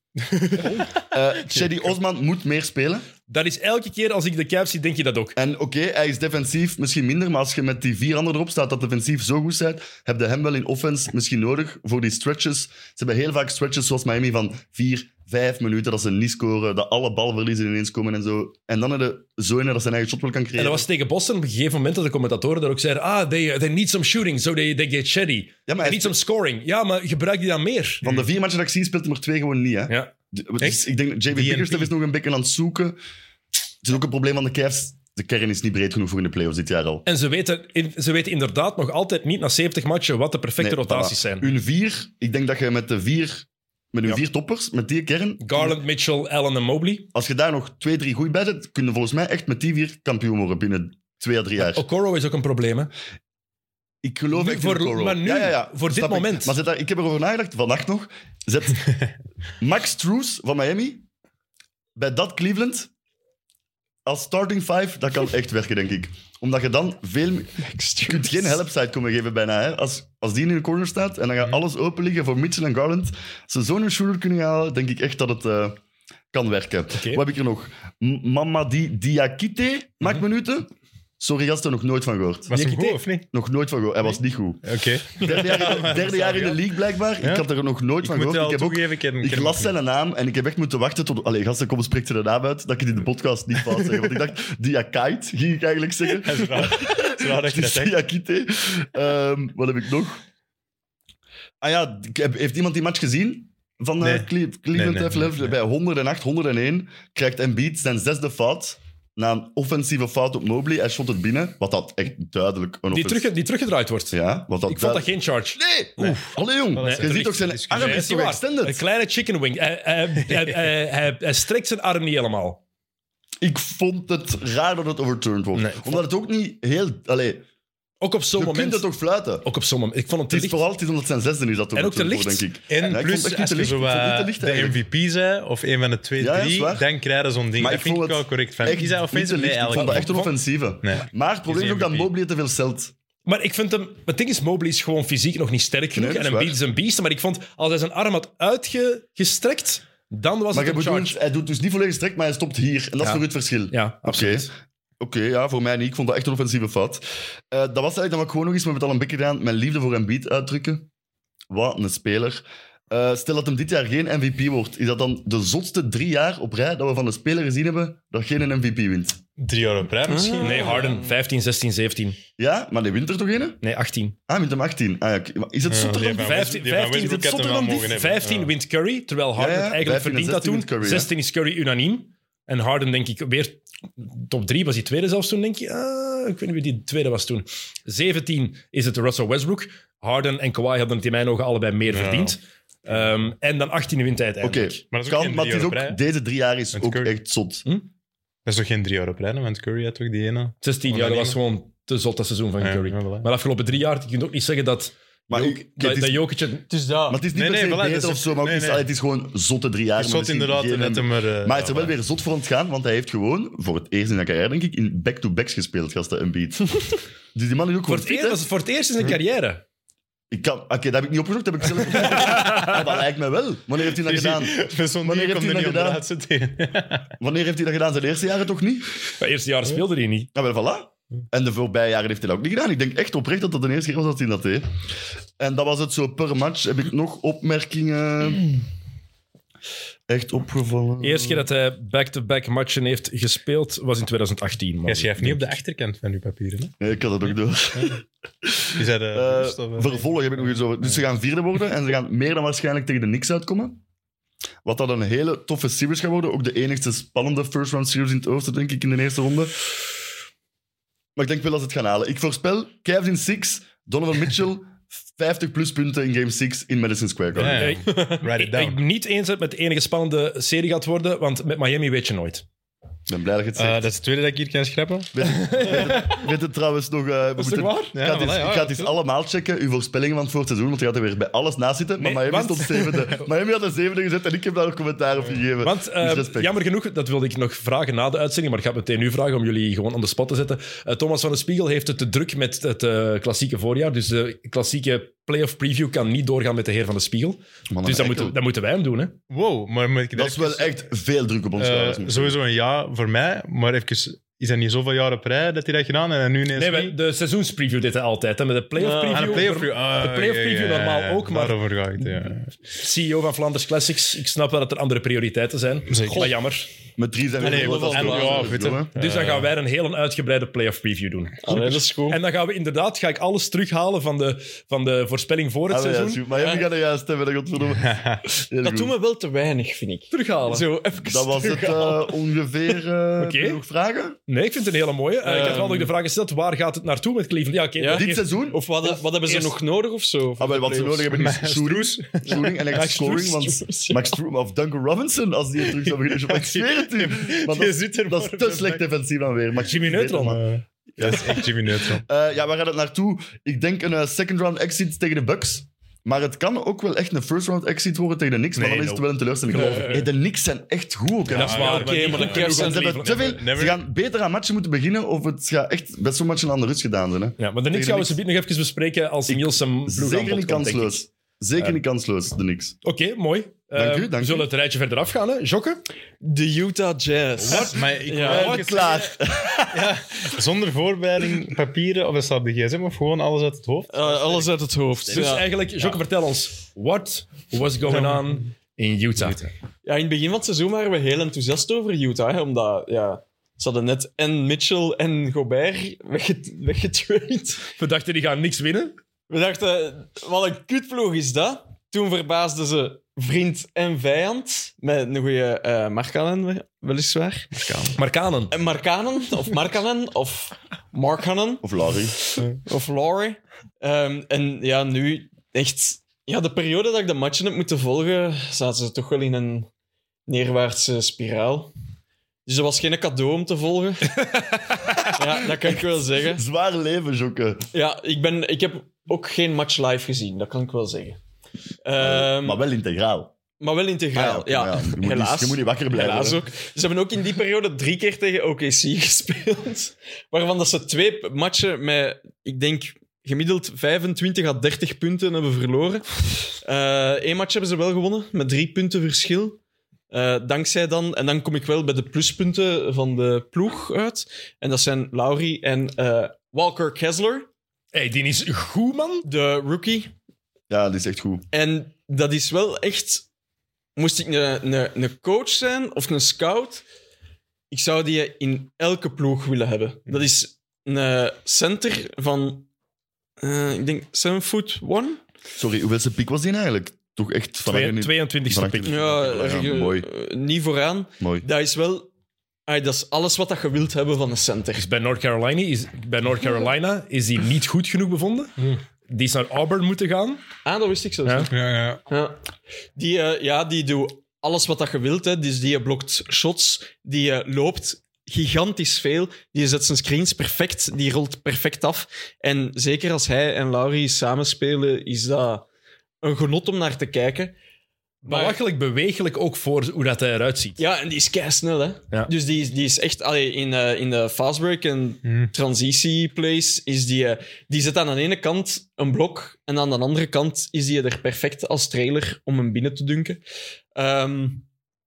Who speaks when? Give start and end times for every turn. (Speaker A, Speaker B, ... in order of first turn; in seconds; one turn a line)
Speaker A: 1.0-3.0
Speaker B: 3.3-5.3
Speaker A: 5.3-20.8
Speaker B: 20.6-28.1
Speaker A: 25.7-26.2
Speaker A: 28.0-33.0
Speaker C: 30.6-31.9
Speaker A: 33.8-37.0
Speaker B: 37.0-41.5
Speaker A: 40.6-45.8
Speaker B: 45.4-47.1
Speaker A: 47.1-51.8
Speaker B: 51.6-52.9
Speaker A: 54.0-58.9
Speaker B: 54.3-56.5
Speaker A: 59.6-61.0
Speaker A: 62.0-62.9
Speaker A: 64.0-75.8
Speaker D: 67.6-68.5
Speaker A: 76.3-80.7
Speaker B: 76.9-77.2
Speaker A: 81.2-82.5
Speaker B: 82.5-83.0
Speaker C: 82.5-83.3
Speaker A: 83.3-100.2
Speaker C: 84.6-86.6
Speaker C: 88.0-89.7
Speaker C: 96.1-97.9
Speaker A: 101.6-113.3
Speaker C: 104.0-105.5
Speaker B: 112.9-122.6
Speaker A: 114.1-118.8
Speaker C: 116.7-118.1
Speaker A: 123.4-127.4
Speaker C: 125.6-126.0
Speaker B: 128.0-128.8
Speaker A: 128.3-129.4
Speaker B: 129.4-130.6
Speaker A: 130.3-134.8
Speaker B: 131.7-132.4
Speaker C: 132.7-142.1
Speaker A: 136.2-136.8
Speaker A: 137.6-142.9
Speaker B: 139.8-140.0
Speaker B: 143.2-151.2
Speaker A: 145.9-146.6
Speaker A: 150.5-154.5
Speaker B: 153.0-154.5
Speaker A: 155.0-160.9
Speaker A: 161.5-169.2
Speaker C: 169.4-170.9
Speaker D: 170.1-171.1
Speaker B: 170.4-172.2
Speaker A: 172.4-173.6
Speaker B: 173.6-174.1
Speaker A: 174.3-176.5
Speaker C: 175.7-178.5
Speaker B: 176.2-194.8
Speaker A: 179.3-181.1
Speaker C: 191.9-192.4
Speaker C: 192.9-193.3
Speaker A: 194.4-197.7
Speaker C: 194.9-196.0
Speaker C: 196.7-197.1
Speaker C: 198.4-201.4
Speaker B: 200.6-206.7
Speaker C: 202.6-203.3
Speaker A: 205.3-206.2
Speaker D: 206.7-207.2
Speaker A: 207.1-216.8
Speaker C: 207.3-208.8
Speaker C: 210.0-211.9
Speaker A: 217.3-218.4
Speaker B: 217.9-219.6
Speaker A: 220.3-226.0
Speaker B: 222.1-222.9
Speaker C: 224.0-227.1
Speaker A: 227.2-228.9
Speaker B: 229.2-230.3
Speaker A: 230.3-234.6
Speaker A: 235.4-238.5
Speaker A: 240.1-241.5
Speaker B: 241.0-245.5
Speaker C: 244.8-246.7
Speaker A: 246.8-253.8
Speaker C: 248.7-250.1
Speaker A: 254.6-259.5
Speaker A: 261.1-267.8
Speaker C: 267.3-268.8
Speaker B: 267.5-272.4
Speaker A: 273.1-273.9
Speaker C: 273.6-276.0
Speaker A: 275.1-286.5
Speaker B: 275.6-276.1
Speaker B: 277.4-277.9
Speaker C: 277.9-278.9
Speaker B: 282.0-283.2
Speaker B: 285.6-299.1
Speaker A: 297.7-298.4
Speaker C: 299.3-300.8
Speaker A: 300.1-302.4
Speaker C: 301.6-306.9
Speaker B: 306.5-311.6
Speaker D: 308.8-309.5
Speaker C: 309.0-312.5
Speaker B: 312.7-316.7
Speaker C: 315.9-316.3
Speaker D: 316.0-316.3
Speaker A: 317.0-318.9
Speaker D: 317.4-318.6
Speaker C: 317.4-319.5
Speaker B: 318.9-326.2
Speaker D: 321.4-322.2
Speaker A: 325.7-328.9
Speaker D: 326.4-326.6
Speaker C: 327.8-328.2
Speaker D: 328.6-332.2
Speaker B: 330.1-330.6
Speaker A: 331.0-334.2
Speaker B: 333.2-333.6
Speaker B: 334.3-338.3
Speaker D: 335.2-335.9
Speaker D: 337.8-341.1
Speaker A: 337.9-338.6
Speaker B: 338.8-339.6
Speaker A: 340.4-350.4
Speaker C: 341.1-342.5
Speaker D: 342.3-344.2
Speaker B: 342.7-343.5
Speaker C: 345.6-348.8
Speaker B: 349.6-350.4
Speaker C: 350.2-352.0
Speaker A: 351.0-351.5
Speaker A: 352.0-368.2
Speaker B: 358.6-360.1
Speaker D: 359.5-359.9
Speaker C: 361.3-363.8
Speaker B: 361.3-363.4
Speaker D: 361.6-362.9
Speaker B: 367.4-371.0
Speaker A: 369.3-372.8
Speaker B: 372.8-375.8
Speaker A: 373.7-374.5
Speaker D: 376.2-378.9
Speaker C: 377.4-379.1
Speaker A: 378.2-379.9
Speaker B: 378.3-378.6
Speaker C: 379.7-384.5
Speaker D: 383.9-385.5
Speaker B: 385.1-389.5
Speaker C: 387.9-388.4
Speaker D: 389.8-397.7
Speaker B: 397.8-398.9
Speaker D: 399.3-407.5
Speaker C: 407.5-408.0
Speaker B: 408.0-408.5
Speaker D: 408.5-411.6
Speaker A: 411.6-412.1
Speaker D: 412.2-419.7
Speaker D: 420.3-421.7
Speaker D: 422.4-424.3
Speaker B: 424.1-425.1
Speaker D: 425.0-426.4
Speaker A: 425.8-427.6
Speaker D: 427.7-431.2
Speaker D: 431.8-432.6
Speaker A: 432.0-433.3
Speaker D: 433.6-446.1
Speaker A: 434.1-436.4
Speaker D: 446.6-449.6
Speaker D: 450.1-457.5
Speaker B: 457.9-459.3
Speaker D: 459.2-460.1
Speaker A: 460.7-461.4
Speaker D: 461.5-463.2
Speaker D: 463.9-466.8
Speaker D: 467.7-472.7
Speaker D: 473.4-475.2
Speaker A: 475.6-480.1
Speaker B: 477.6-478.9
Speaker D: 478.8-482.1
Speaker A: 481.2-481.4
Speaker D: 482.7-484.8
Speaker B: 484.8-490.4
Speaker D: 490.6-491.5
Speaker B: 491.2-491.5
Speaker C: 491.5-492.0
Speaker D: 492.1-492.4
Speaker D: 492.9-505.6
Speaker D: 506.2-507.5
Speaker B: 508.2-510.8
Speaker D: 508.2-508.6
Speaker D: 510.8-523.4
Speaker D: 524.0-524.6